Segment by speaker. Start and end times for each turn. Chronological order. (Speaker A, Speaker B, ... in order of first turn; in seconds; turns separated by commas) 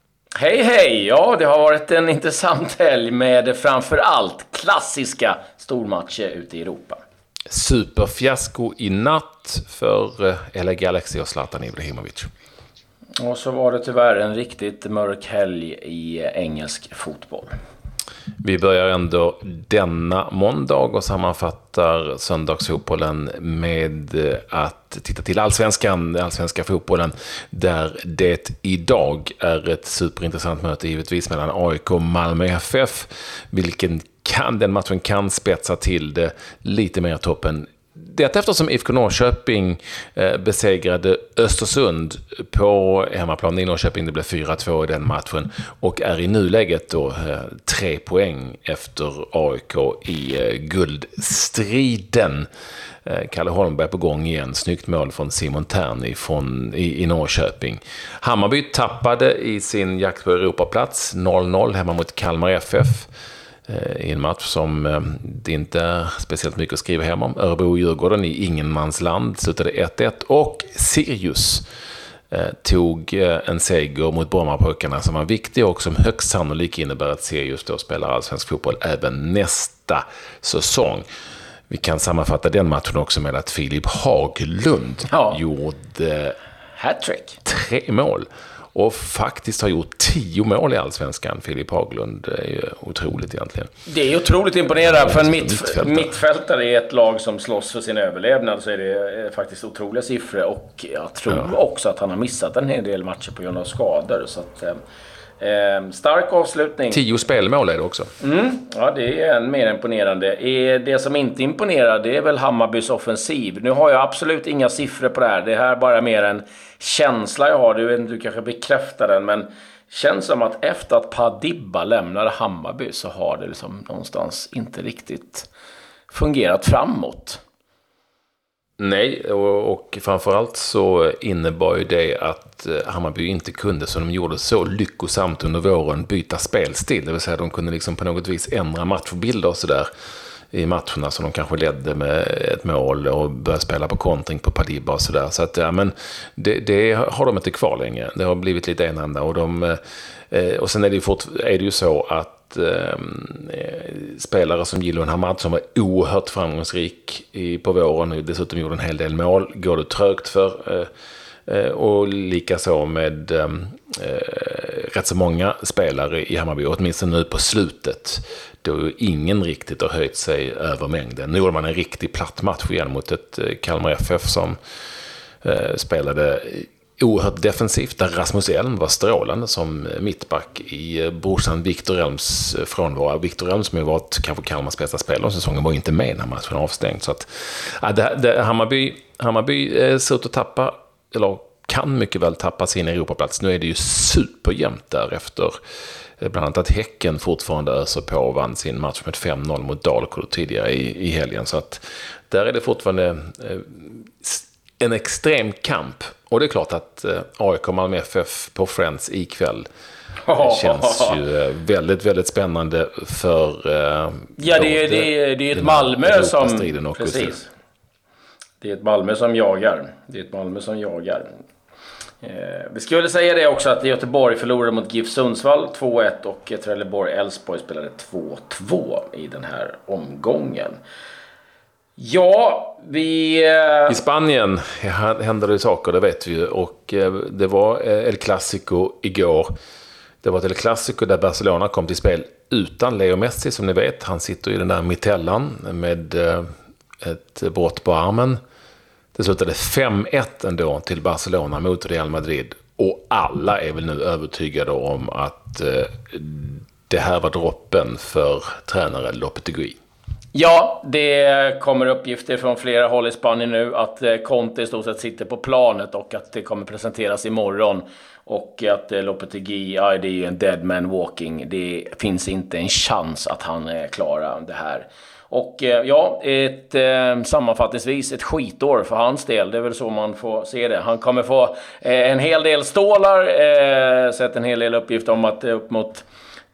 Speaker A: 0.4-7.0, Speaker B: 7.5-12.3, Speaker A: 13.2-17.5, Speaker B: 18.4-52.5, Speaker B: 53.0-63.1, Speaker B: 63.7-71.7, Speaker B: 72.3-81.0, Speaker B: 81.7-86.3, Speaker A: 85.1-85.4, Speaker A: 86.8-87.4, Speaker B: 87.4-93.7, Speaker A: 93.8-104.8, Speaker B: 94.8-96.1, Speaker A: 105.4-107.0, Speaker B: 106.9-108.1, Speaker A: 108.2-125.5, Speaker A: 126.1-127.4, Speaker B: 128.8-139.9, Speaker B: 140.5-149.8, Speaker B: 150.3-160.9, Speaker B: 161.5-174.6, Speaker B: 175.4-195.6, Speaker B: 196.2-209.7, Speaker A: 210.2-211.2, Speaker B: 210.4-217.4, Speaker A: 214.4-217.5, Speaker A: 218.6-221.3, Speaker A: 222.2-230.8, Speaker A: 232.0-234.0, Speaker B: 233.9-239.5, Speaker B: 240.2-246.5, Speaker B: 247.0-248.4, Speaker B: 249.1-259.8, Speaker A: 260.3-286.1